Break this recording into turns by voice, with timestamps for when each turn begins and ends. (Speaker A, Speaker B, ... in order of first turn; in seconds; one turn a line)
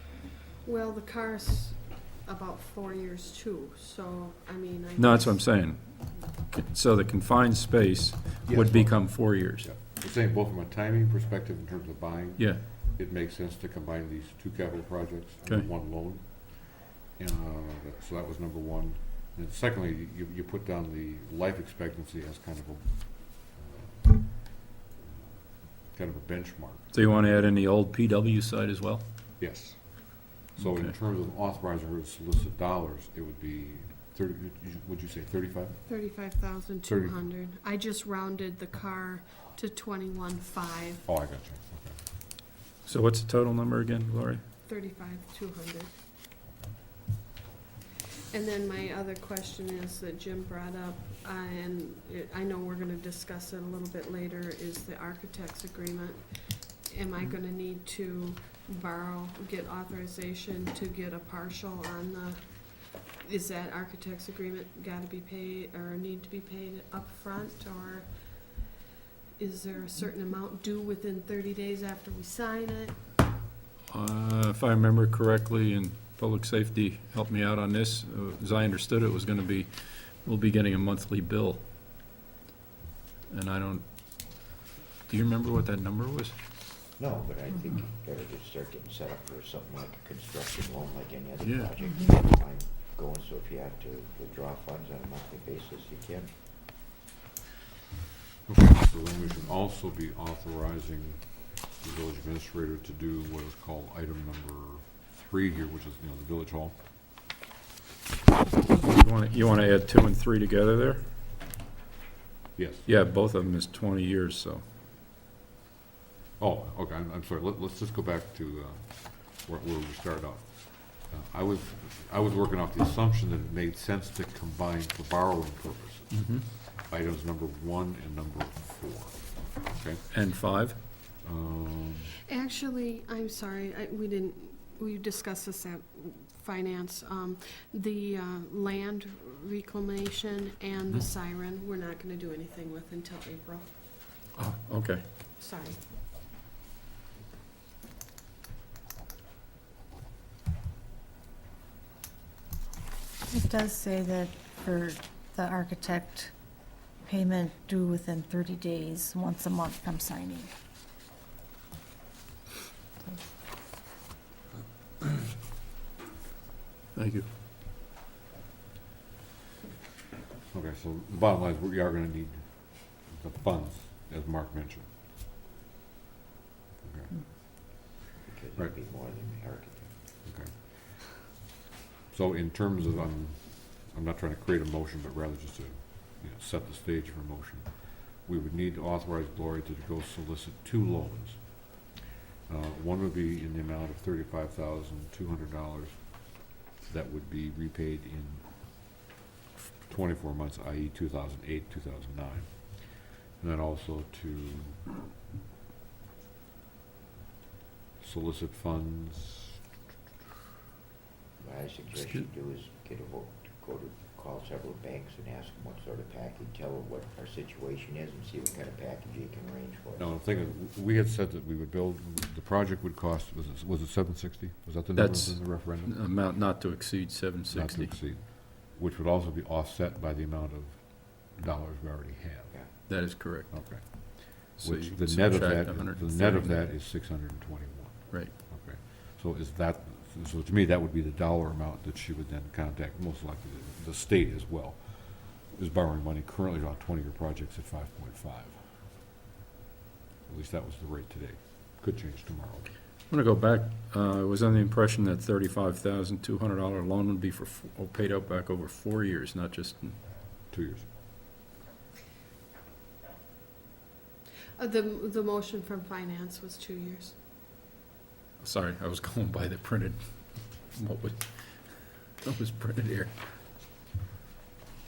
Speaker A: 0.6-5.5
Speaker B: 5.0-9.7
Speaker C: 8.5-27.3
Speaker B: 12.4-12.6
Speaker B: 26.9-29.0
Speaker C: 29.4-35.9
Speaker B: 30.6-30.9
Speaker A: 35.9-41.1
Speaker C: 36.9-37.3
Speaker C: 41.0-42.0
Speaker B: 42.9-44.4
Speaker A: 44.7-46.0
Speaker A: 48.3-68.6
Speaker A: 69.4-73.0
Speaker B: 73.9-81.6
Speaker B: 83.3-84.5
Speaker B: 85.1-86.3
Speaker D: 87.0-96.3
Speaker B: 91.4-91.7
Speaker C: 98.5-106.8
Speaker B: 108.7-111.0
Speaker C: 112.6-112.9
Speaker B: 112.8-114.6
Speaker C: 116.4-130.1
Speaker B: 126.1-126.5
Speaker B: 130.1-130.8
Speaker C: 131.2-132.2
Speaker A: 132.2-143.8
Speaker B: 144.3-145.1
Speaker A: 145.4-145.8
Speaker E: 153.3-156.3
Speaker E: 157.0-160.5
Speaker B: 166.9-167.3
Speaker C: 170.5-174.9
Speaker C: 176.8-177.8
Speaker D: 178.2-179.9
Speaker C: 180.2-181.1
Speaker C: 182.1-191.9
Speaker C: 192.5-198.4
Speaker C: 199.9-204.9
Speaker C: 208.0-209.6
Speaker D: 211.4-220.1
Speaker C: 220.0-226.1
Speaker B: 224.9-227.9
Speaker C: 227.5-248.7
Speaker B: 232.9-236.8
Speaker B: 238.1-238.3
Speaker C: 250.3-252.7
Speaker B: 253.1-260.0
Speaker C: 260.5-260.9
Speaker A: 264.6-267.1
Speaker B: 268.4-273.1